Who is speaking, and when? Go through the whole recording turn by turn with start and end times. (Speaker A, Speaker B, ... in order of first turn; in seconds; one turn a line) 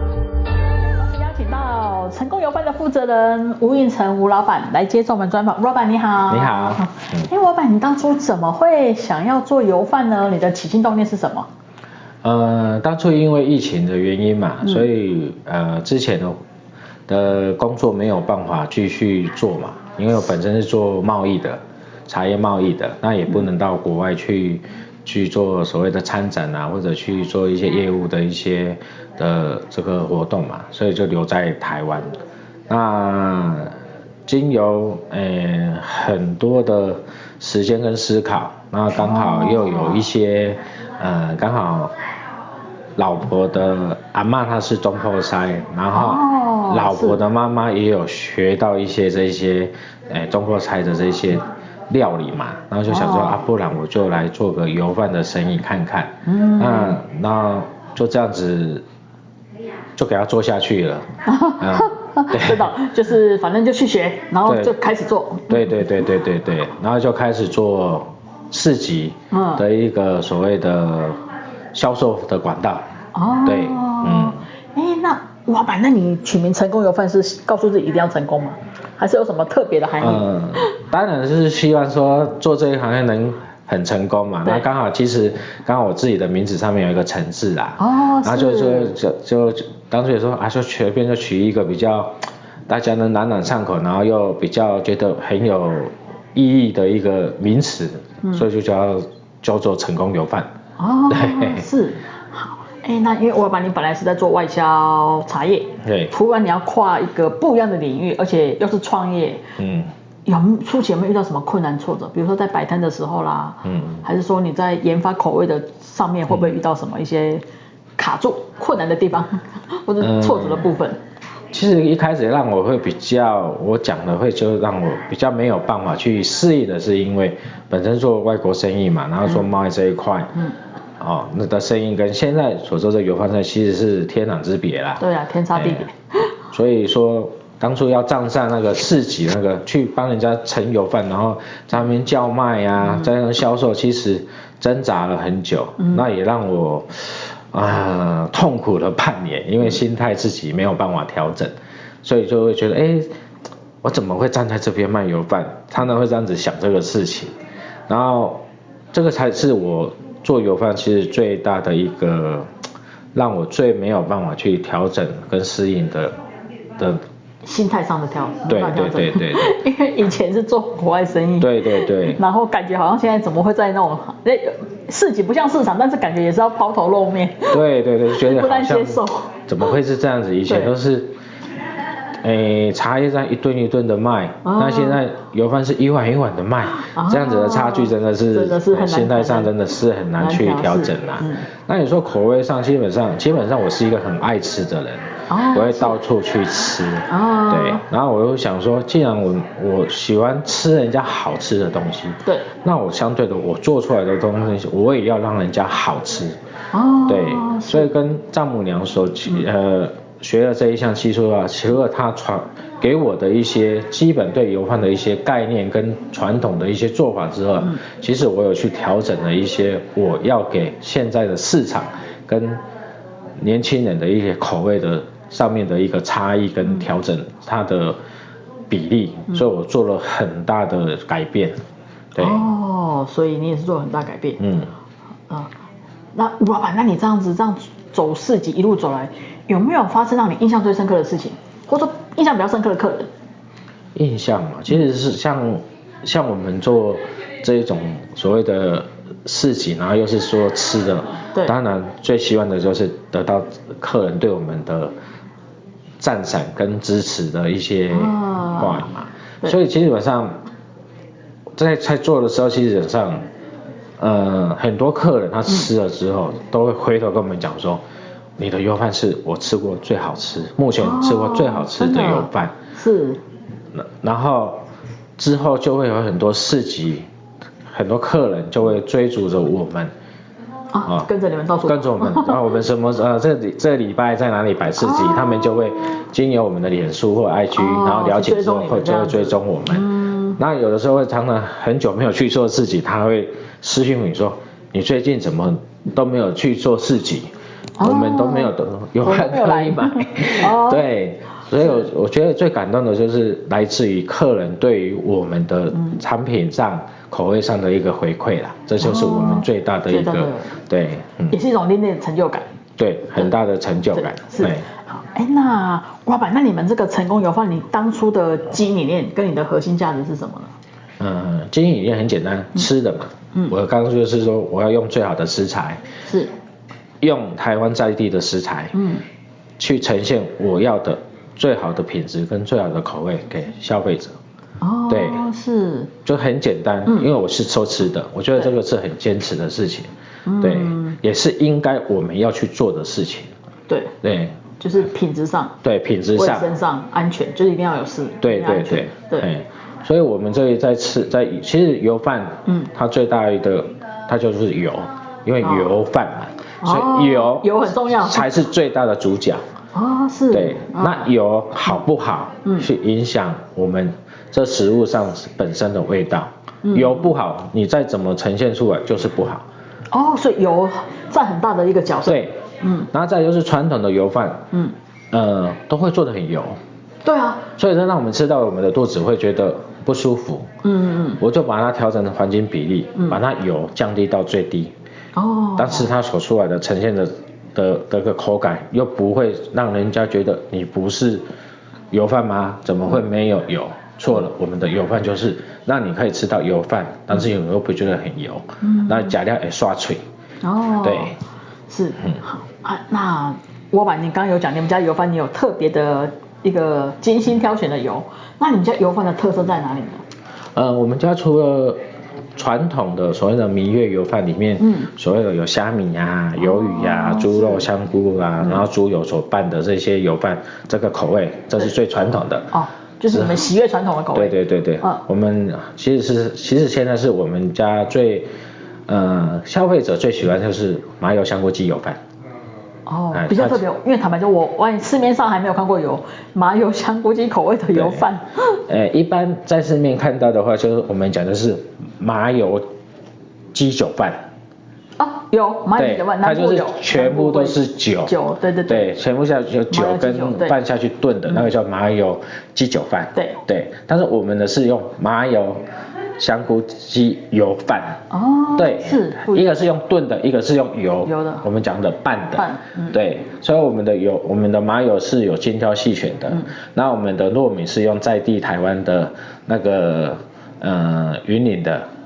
Speaker A: 1.0-11.5
Speaker B: 6.3-7.3
Speaker B: 12.2-16.4
Speaker B: 17.1-32.1
Speaker B: 32.7-33.7
Speaker B: 34.3-41.9
Speaker A: 39.0-40.1
Speaker B: 43.0-58.8
Speaker A: 45.9-47.2
Speaker A: 52.9-53.4
Speaker A: 56.3-57.0
Speaker B: 60.0-62.7
Speaker A: 61.2-65.9
Speaker B: 64.5-64.7
Speaker B: 65.5-71.2
Speaker A: 69.3-69.7
Speaker B: 71.7-72.8
Speaker A: 73.2-80.7
Speaker B: 73.5-74.4
Speaker B: 80.0-92.2
Speaker A: 87.8-89.0
Speaker B: 92.7-100.5
Speaker A: 100.8-109.4
Speaker B: 101.1-101.7
Speaker B: 105.8-106.1
Speaker B: 109.6-109.9
Speaker A: 110.3-117.5
Speaker B: 113.6-114.0
Speaker B: 116.3-116.6
Speaker A: 118.0-121.0
Speaker B: 120.0-120.8
Speaker B: 121.5-130.3
Speaker B: 131.0-135.9
Speaker A: 135.0-135.9
Speaker B: 136.5-153.1
Speaker A: 145.8-146.1
Speaker B: 153.8-157.3
Speaker B: 157.9-158.4
Speaker B: 158.9-162.5
Speaker B: 163.1-166.2
Speaker A: 167.4-179.8
Speaker B: 168.5-169.6
Speaker B: 171.4-172.2
Speaker B: 177.5-181.1
Speaker A: 180.5-180.8
Speaker B: 182.2-206.4
Speaker A: 184.4-185.0
Speaker A: 186.8-189.5
Speaker A: 190.2-191.5
Speaker A: 195.3-196.0
Speaker A: 197.1-197.8
Speaker A: 206.7-207.9
Speaker B: 207.1-222.6
Speaker B: 223.4-228.0
Speaker B: 228.7-231.6
Speaker B: 232.2-232.5
Speaker A: 232.2-234.4
Speaker B: 234.4-234.7
Speaker A: 236.2-243.1
Speaker B: 243.9-254.9
Speaker B: 256.0-260.3
Speaker A: 257.9-258.9
Speaker B: 261.6-263.2
Speaker B: 264.0-267.8
Speaker B: 268.4-272.6
Speaker A: 270.8-273.2
Speaker B: 273.8-274.6
Speaker B: 275.2-277.1
Speaker B: 277.7-279.9
Speaker A: 280.7-282.4
Speaker B: 281.6-311.4
Speaker A: 284.8-285.9
Speaker A: 287.5-290.4
Speaker A: 297.8-300.9
Speaker A: 308.8-310.5
Speaker A: 311.3-312.4
Speaker B: 312.8-314.7
Speaker A: 313.9-320.5
Speaker B: 321.0-325.8
Speaker A: 326.1-326.3
Speaker B: 327.0-328.8
Speaker A: 328.7-329.0
Speaker B: 329.6-334.2
Speaker A: 334.6-335.9
Speaker B: 334.9-335.2
Speaker B: 336.1-343.3
Speaker A: 340.2-340.9
Speaker A: 343.7-344.0
Speaker B: 344.0-344.4
Speaker A: 344.6-345.6
Speaker B: 345.6-346.5
Speaker A: 346.1-349.3
Speaker B: 348.2-359.4
Speaker A: 352.5-352.7
Speaker A: 355.4-355.7
Speaker A: 356.6-358.3
Speaker A: 359.7-361.1
Speaker B: 360.3-369.4
Speaker A: 366.6-367.1
Speaker A: 369.9-372.9
Speaker B: 372.1-372.4
Speaker B: 372.9-374.4
Speaker B: 375.1-376.6
Speaker A: 377.0-377.5
Speaker B: 377.6-380.5
Speaker A: 380.6-381.2
Speaker B: 381.2-384.7
Speaker A: 382.9-383.2
Speaker A: 385.1-385.9
Speaker B: 385.6-391.2
Speaker B: 391.9-400.0
Speaker A: 398.6-399.2
Speaker A: 400.4-401.2
Speaker B: 400.8-401.2
Speaker A: 401.7-410.0
Speaker B: 410.6-411.8
Speaker B: 412.4-422.5
Speaker A: 414.6-414.9
Speaker A: 416.4-417.7
Speaker A: 422.5-425.0
Speaker B: 423.1-423.4
Speaker B: 424.1-428.3
Speaker B: 428.9-432.0
Speaker A: 432.9-438.6
Speaker B: 433.1-433.6
Speaker B: 437.7-438.1
Speaker B: 438.7-442.7
Speaker B: 443.5-444.2
Speaker A: 445.0-448.9
Speaker B: 445.8-448.1
Speaker B: 448.7-455.6
Speaker A: 449.7-450.6
Speaker A: 453.1-453.4
Speaker B: 456.2-458.0
Speaker A: 458.1-459.5
Speaker B: 458.6-471.9
Speaker A: 461.1-461.4
Speaker A: 462.4-463.0